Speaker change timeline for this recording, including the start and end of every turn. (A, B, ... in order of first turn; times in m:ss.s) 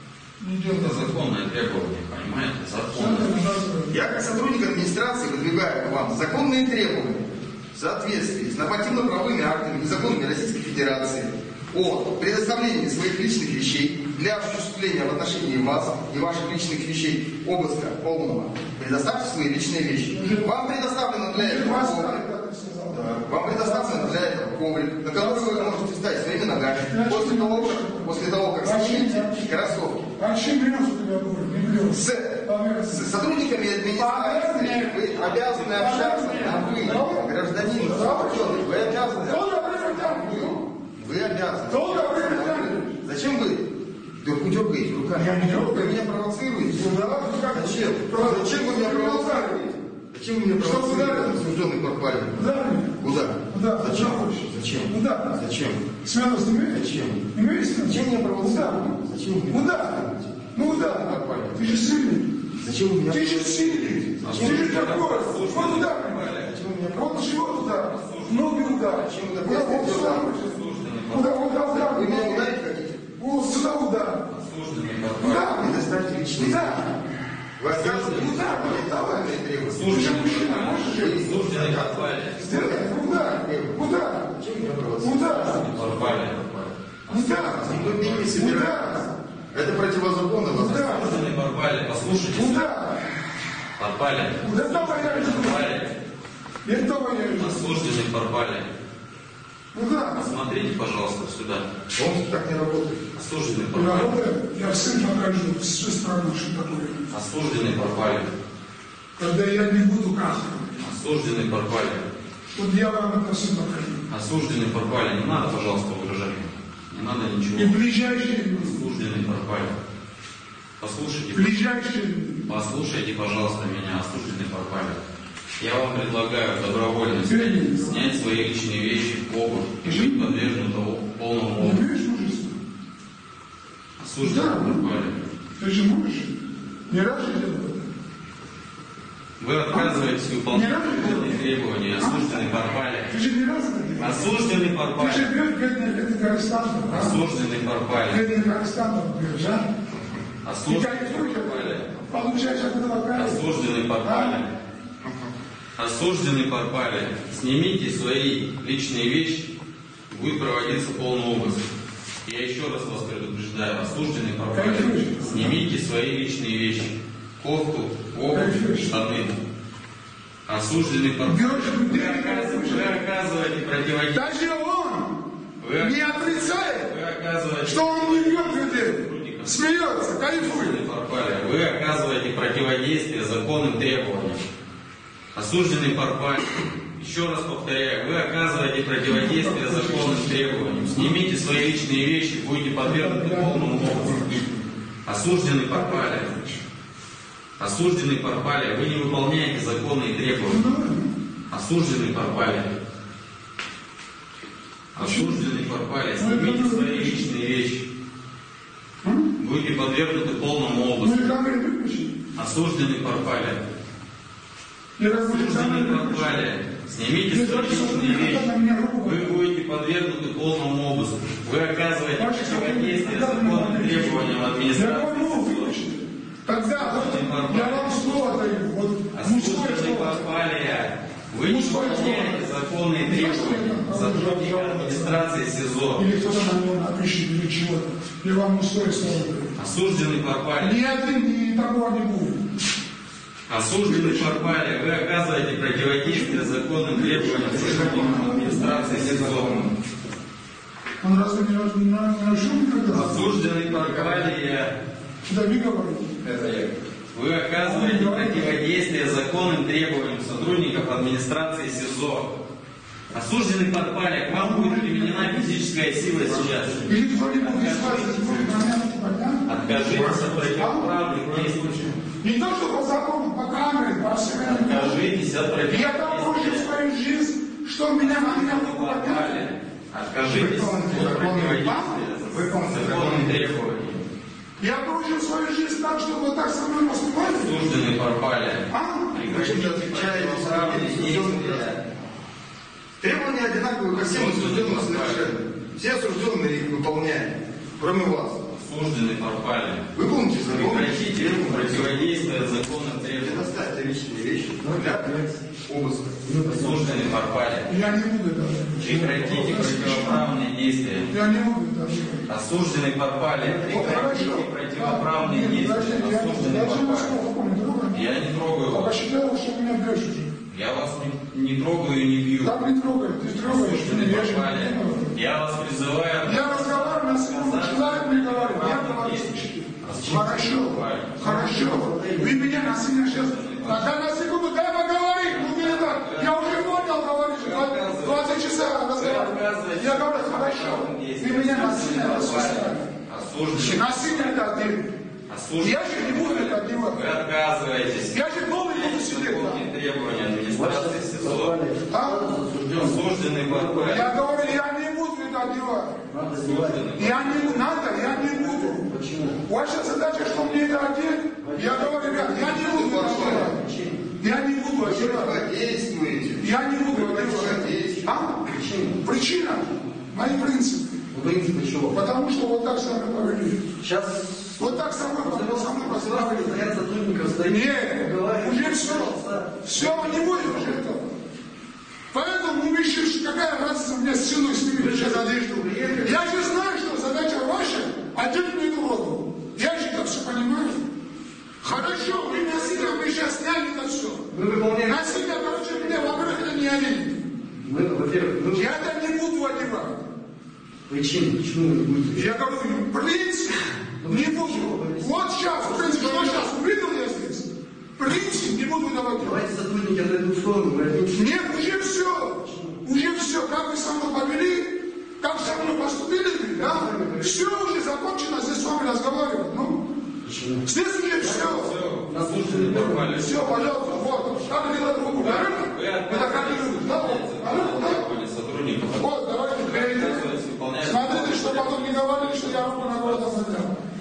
0:00.4-0:01.1 A
0:00.7-0:03.3 B
0:02.9-0:04.0 A
0:03.9-0:22.2 C
0:20.1-0:20.6 A
0:21.3-0:24.4 A
0:22.9-0:30.1 C
0:25.1-0:25.8 A
0:26.8-0:33.2 A
0:31.9-0:47.0 C
0:33.9-0:40.6 A
0:35.1-0:37.1 B
0:41.7-0:43.0 A
0:45.1-0:46.0 A
0:46.7-0:49.6 A
0:47.5-0:55.9 C
0:50.6-0:51.5 A
0:52.4-0:55.4 A
0:56.0-0:58.9 A
0:56.7-1:01.7 C
0:59.5-1:02.4 A
1:02.6-1:04.8 C
1:03.1-1:06.3 A
1:04.2-1:06.5 B
1:06.4-1:07.6 C
1:06.9-1:10.5 A
1:07.6-1:09.1 B
1:08.9-1:10.3 C
1:09.8-1:11.5 B
1:11.1-1:12.5 A
1:11.6-1:13.0 C
1:13.2-1:14.3 A
1:14.3-1:15.6 B
1:15.2-1:15.7 A
1:15.2-1:16.9 C
1:16.3-1:17.0 A
1:17.6-1:20.3 C
1:17.7-1:19.3 A
1:17.8-1:18.3 B
1:19.6-1:22.4 B
1:19.9-1:21.3 A
1:20.9-1:26.7 C
1:22.4-1:24.3 A
1:25.0-1:25.6 A
1:25.5-1:26.4 B
1:27.1-1:28.4 B
1:27.1-1:27.7 A
1:27.3-1:31.0 C
1:28.3-1:29.1 A
1:30.5-1:31.2 A
1:30.7-1:32.7 B
1:32.3-1:33.1 A
1:33.8-1:36.0 B
1:34.4-1:35.7 A
1:36.6-1:37.6 A
1:37.3-1:38.7 B
1:39.7-1:40.3 A
1:40.0-1:41.7 B
1:41.9-1:43.0 C
1:43.1-1:44.2 B
1:43.7-1:47.1 A
1:47.1-1:48.3 B
1:49.2-1:50.8 A
1:50.8-1:52.1 B
1:52.5-1:54.0 A
1:54.1-1:57.8 B
1:57.5-1:58.8 A
1:58.5-1:59.8 B
2:00.8-2:01.6 B
2:01.3-2:02.4 A
2:02.4-2:05.0 B
2:05.6-2:11.8 B
2:07.2-2:08.1 A
2:09.8-2:10.3 A
2:11.6-2:12.6 A
2:14.0-2:15.2 B
2:14.2-2:14.8 A
2:15.6-2:16.3 A
2:16.9-2:17.9 A
2:19.4-2:23.1 B
2:19.7-2:21.4 A
2:22.0-2:22.5 A
2:23.1-2:27.2 A
2:24.0-2:25.3 B
2:26.9-2:28.3 B
2:28.1-2:29.6 A
2:30.4-2:32.0 B
2:30.7-2:33.4 A
2:33.1-2:34.5 B
2:34.0-2:34.4 A
2:35.0-2:35.3 C
2:35.8-2:39.5 B
2:40.1-2:41.6 B
2:42.2-2:49.4 B
2:44.5-2:45.5 A
2:48.3-2:48.9 A
2:50.5-2:54.3 B
2:51.2-2:52.9 A
2:54.1-2:55.2 A
2:55.6-3:04.4 B
2:55.8-2:56.9 A
2:57.6-3:00.8 A
3:05.3-3:14.5 B
3:09.0-3:11.2 A
3:12.8-3:14.4 A
3:15.0-3:16.3 B
3:15.7-3:16.6 A
3:17.6-3:20.7 B
3:20.5-3:21.1 A
3:21.5-3:22.7 B
3:24.9-3:27.9 B
3:25.0-3:25.4 A
3:26.2-3:27.2 A
3:29.0-3:29.3 A
3:29.4-3:31.4 B
3:31.0-3:32.2 A
3:32.3-3:33.6 B
3:35.0-3:36.4 A
3:35.1-3:45.8 B
3:37.3-3:39.3 A
3:42.2-3:50.2 A
3:46.6-3:48.4 B
3:49.1-3:56.1 B
3:51.4-3:52.4 A
3:53.0-3:55.2 A
3:56.0-3:59.5 A
3:59.6-4:00.8 B
4:00.6-4:02.4 A
4:03.5-4:09.7 B
4:03.8-4:04.5 A
4:06.0-4:08.7 A
4:07.1-4:09.7 C
4:11.0-4:13.2 A
4:12.9-4:14.7 B
4:13.8-4:14.3 C
4:15.2-4:16.2 A
4:16.2-4:16.7 C
4:17.1-4:22.3 B
4:17.6-4:18.6 A
4:23.1-4:28.6 B
4:24.3-4:25.6 A
4:26.8-4:30.9 A
4:29.4-4:32.0 B
4:29.8-4:30.4 C
4:31.2-4:31.8 C
4:32.2-4:35.0 A
4:34.3-4:36.7 B
4:35.6-4:39.4 A
4:38.0-4:44.0 B
4:40.2-4:43.6 C
4:41.6-4:42.0 A
4:44.6-4:47.6 A
4:47.2-4:51.8 B
4:48.7-4:49.2 A
4:49.2-4:51.7 C
4:53.0-4:58.4 C
4:53.9-4:55.3 B
4:58.5-4:59.9 B
4:59.9-5:02.4 C
5:00.4-5:03.5 B
5:03.2-5:06.2 C
5:04.6-5:05.4 D
5:06.2-5:07.2 D
5:06.5-5:07.7 B
5:07.7-5:10.2 A
5:08.7-5:11.1 B
5:11.1-5:12.3 A
5:12.3-5:17.2 B
5:13.4-5:14.1 D
5:13.6-5:18.2 A
5:17.9-5:19.0 B
5:18.7-5:20.3 A
5:20.5-5:22.6 B
5:22.4-5:25.2 A
5:23.4-5:31.4 B
5:26.2-5:42.9 A
5:31.2-5:32.6 D
5:32.9-5:34.0 B
5:35.2-5:44.4 B
5:43.5-5:44.9 A
5:45.3-5:51.6 B
5:45.6-5:47.0 A
5:48.1-5:49.6 A
5:50.5-5:54.4 D
5:51.9-5:52.4 A
5:52.6-5:54.1 B
5:53.9-5:56.0 A
5:56.1-5:56.9 D
5:56.4-5:57.8 B
5:56.9-5:58.9 A
5:57.5-5:59.4 D
5:59.4-6:03.6 A
6:01.4-6:04.0 D
6:02.6-6:03.5 C
6:04.2-6:05.4 A
6:04.8-6:08.1 C
6:06.4-6:08.4 A
6:08.4-6:09.0 D
6:09.0-6:11.0 A
6:11.1-6:12.0 D
6:11.9-6:13.6 A
6:13.8-6:20.8 D
6:14.6-6:16.8 A
6:17.4-6:21.2 A
6:22.1-6:30.8 A
6:24.7-6:26.4 D
6:31.6-6:34.3 A
6:31.6-6:33.0 D
6:34.3-6:36.4 D
6:34.8-6:37.2 A
6:37.6-6:38.8 D
6:38.5-6:40.1 A
6:40.9-6:42.3 D
6:42.1-6:49.4 A
6:44.0-6:46.5 D
6:49.2-6:52.8 D
6:51.1-6:59.8 A
6:56.5-6:57.5 D
7:00.2-7:00.7 D
7:00.6-7:01.7 A
7:01.2-7:03.4 D
7:01.2-7:03.6 B
7:03.1-7:08.0 A
7:05.2-7:13.6 B
7:08.9-7:10.2 A
7:10.8-7:13.8 A